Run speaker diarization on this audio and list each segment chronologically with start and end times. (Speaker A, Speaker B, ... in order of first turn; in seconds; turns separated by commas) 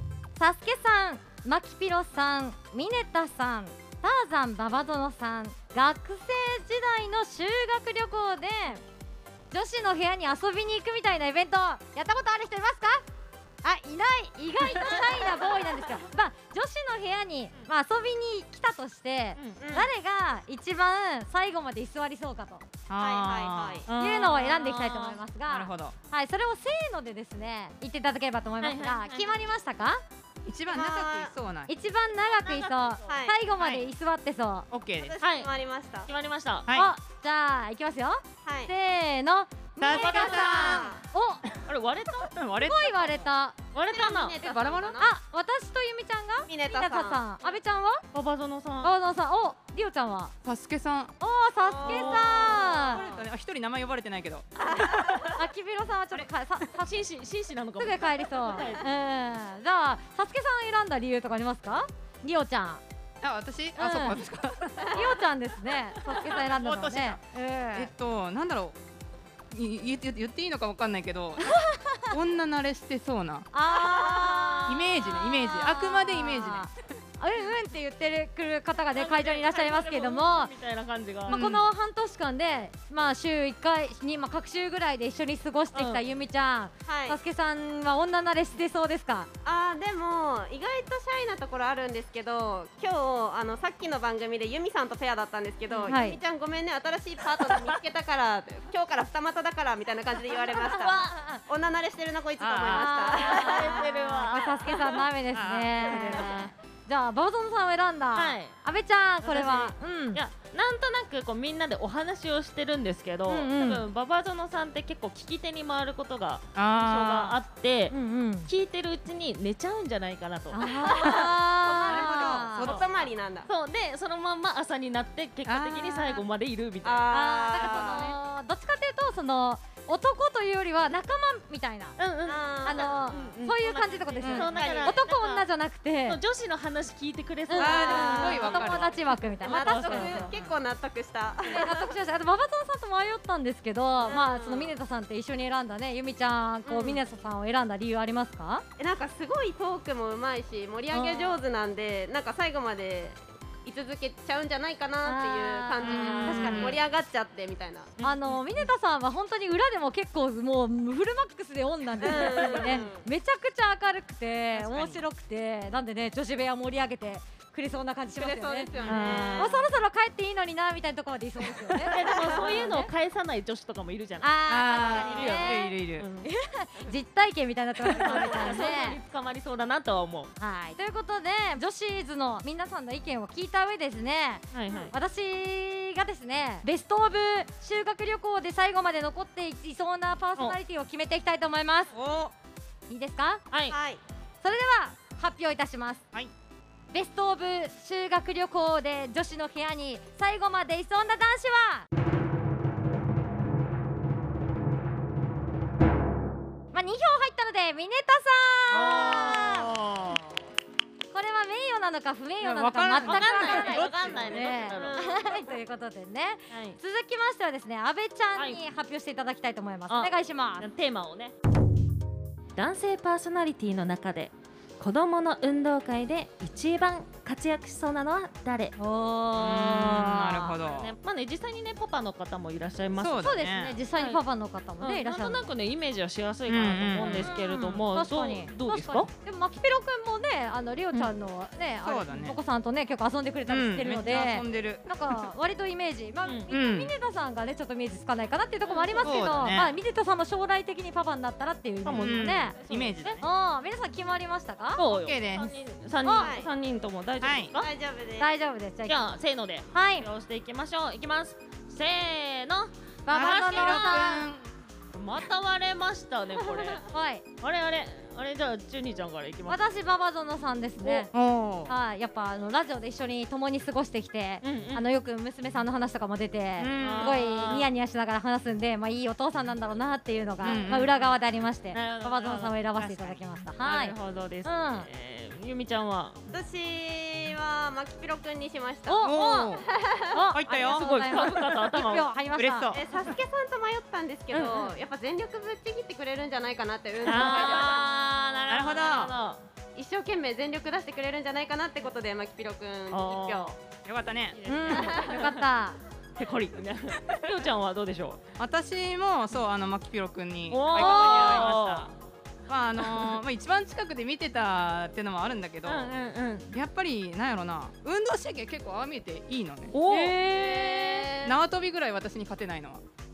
Speaker A: 0.4-8.8, Speaker A: 9.5-13.0, Speaker A: 13.6-22.7, Speaker B: 19.6-19.9, Speaker C: 22.9-23.8, Speaker B: 23.0-23.9, Speaker D: 23.9-25.2, Speaker A: 24.0-30.0, Speaker C: 25.5-25.9, Speaker D: 28.6-29.4, Speaker C: 30.5-31.7, Speaker B: 30.7-31.3, Speaker A: 31.7-34.7, Speaker D: 32.2-33.2, Speaker B: 33.1-33.4, Speaker C: 33.6-33.9, Speaker C: 34.7-35.2, Speaker B: 35.0-36.1, Speaker D: 35.2-35.5, Speaker D: 36.1-36.7, Speaker C: 36.7-36.9, Speaker A: 36.7-41.4, Speaker B: 38.5-38.7, Speaker C: 39.8-40.9, Speaker D: 39.9-40.8, Speaker B: 40.1-41.0, Speaker D: 41.7-42.3, Speaker C: 42.2-43.0, Speaker A: 42.6-43.6, Speaker D: 43.7-44.6, Speaker B: 43.9-45.1, Speaker A: 44.4-48.0, Speaker B: 46.5-47.2, Speaker D: 48.1-48.9, Speaker A: 48.8-50.3, Speaker C: 50.4-51.2, Speaker A: 51.2-53.0, Speaker B: 51.6-53.2, Speaker D: 51.8-53.0, Speaker C: 52.6-55.3, Speaker B: 54.6-55.4, Speaker A: 55.4-57.0, Speaker D: 56.8-58.9, Speaker A: 57.8-62.8, Speaker C: 63.2-65.2, Speaker A: 63.8-64.2, Speaker A: 64.9-67.9, Speaker C: 66.3-67.2, Speaker C: 67.7-68.8, Speaker C: 69.5-71.6, Speaker A: 71.4-72.2, Speaker C: 72.1-73.5, Speaker A: 73.5-80.5, Speaker D: 73.7-74.7, Speaker C: 74.7-76.7, Speaker D: 78.9-81.5, Speaker C: 81.3-81.7, Speaker A: 81.3-89.3, Speaker D: 85.7-86.0, Speaker B: 86.9-87.2, Speaker B: 89.5-103.9, Speaker A: 95.9-96.2, Speaker A: 100.5-101.4, Speaker C: 102.4-102.9, Speaker A: 102.7-110.2, Speaker D: 103.0-105.1, Speaker C: 105.3-106.0, Speaker D: 105.8-106.5, Speaker B: 105.9-106.2, Speaker D: 108.1-108.5, Speaker D: 109.2-121.1, Speaker A: 113.3-113.8, Speaker C: 116.5-117.4, Speaker A: 117.9-118.5, Speaker A: 120.5-122.7, Speaker B: 120.7-123.5, Speaker D: 121.7-122.9, Speaker C: 121.8-122.8, Speaker D: 123.5-127.1, Speaker C: 125.5-126.0, Speaker B: 126.8-128.1, Speaker A: 127.1-132.0, Speaker C: 127.7-128.1, Speaker D: 132.0-135.5, Speaker B: 132.2-133.4, Speaker A: 132.6-136.2, Speaker C: 134.2-134.5, Speaker B: 134.4-135.0, Speaker D: 136.0-140.3, Speaker A: 137.5-140.3, Speaker C: 137.6-138.9, Speaker B: 137.8-138.7, Speaker B: 139.4-141.9, Speaker A: 141.5-148.7, Speaker B: 144.0-144.7, Speaker B: 146.7-147.0, Speaker B: 148.8-158.0, Speaker A: 150.9-151.4, Speaker A: 155.0-156.8, Speaker C: 155.8-156.8, Speaker D: 158.0-158.7, Speaker A: 158.0-172.9, Speaker B: 162.0-163.1, Speaker D: 162.5-162.8, Speaker C: 164.6-165.0, Speaker B: 168.2-169.7, Speaker D: 168.8-169.6, Speaker B: 171.7-172.7, Speaker D: 171.8-174.3, Speaker A: 174.2-175.7, Speaker C: 174.5-176.1, Speaker B: 174.8-175.3, Speaker D: 174.9-176.3, Speaker A: 176.2-179.0, Speaker D: 177.8-180.3, Speaker A: 180.4-191.9, Speaker D: 184.5-184.9, Speaker C: 191.9-192.3, Speaker A: 192.9-193.4, Speaker D: 193.5-193.8, Speaker B: 193.7-194.0, Speaker A: 194.4-196.0, Speaker A: 196.9-201.9, Speaker A: 206.7-209.7, Speaker C: 208.7-210.2, Speaker D: 208.9-210.2, Speaker A: 211.1-220.7, Speaker C: 212.4-214.5, Speaker D: 213.0-215.2, Speaker B: 214.7-215.3, Speaker D: 216.5-216.8, Speaker D: 218.3-218.6, Speaker D: 219.9-221.3, Speaker D: 222.6-228.8, Speaker A: 228.8-230.6, Speaker C: 229.4-230.9, Speaker D: 230.6-233.3, Speaker C: 233.0-233.8, Speaker A: 233.2-235.4, Speaker D: 233.9-234.2, Speaker D: 234.8-239.1, Speaker C: 236.5-237.3, Speaker A: 237.0-252.6, Speaker C: 241.8-242.4, Speaker C: 243.5-245.3, Speaker D: 246.2-246.5, Speaker C: 246.5-246.9, Speaker D: 248.6-249.6, Speaker C: 249.0-249.7, Speaker D: 251.8-253.2, Speaker C: 252.0-253.3, Speaker A: 253.2-254.8, Speaker D: 254.8-257.7, Speaker C: 254.9-255.5, Speaker A: 256.0-256.3, Speaker B: 256.1-256.5, Speaker C: 257.2-257.6, Speaker B: 257.6-258.3, Speaker A: 258.2-259.0, Speaker D: 258.9-264.2, Speaker A: 259.7-260.1, Speaker A: 263.1-264.3, Speaker C: 263.1-264.5, Speaker D: 264.9-266.9, Speaker A: 266.9-267.2, Speaker D: 267.4-269.6, Speaker A: 269.5-271.1, Speaker C: 270.8-271.8, Speaker A: 271.7-283.9, Speaker D: 274.4-274.9, Speaker C: 276.6-277.2, Speaker D: 276.8-277.7, Speaker C: 280.4-280.9, Speaker D: 281.7-282.6, Speaker C: 282.8-283.2, Speaker D: 283.6-286.2, Speaker A: 284.5-284.9, Speaker B: 286.3-289.1, Speaker A: 288.9-289.6, Speaker C: 289.0-289.7, Speaker B: 289.6-290.2, Speaker A: 290.1-292.7, Speaker C: 290.3-291.3, Speaker D: 290.6-292.1, Speaker C: 292.3-292.8, Speaker B: 292.7-297.9, Speaker D: 294.3-294.7, Speaker D: 297.0-299.4, Speaker A: 297.2-297.9, Speaker C: 298.5-299.1, Speaker B: 299.8-303.6, Speaker D: 302.9-303.5, Speaker C: 303.8-304.4, Speaker D: 304.4-305.4, Speaker A: 304.5-305.8, Speaker B: 304.8-305.2, Speaker D: 306.2-308.2, Speaker C: 308.4-311.9, Speaker D: 310.5-311.9, Speaker A: 310.7-311.5, Speaker C: 312.5-315.9, Speaker D: 312.8-313.2, Speaker D: 315.6-316.5, Speaker C: 316.5-322.8, Speaker D: 319.7-321.3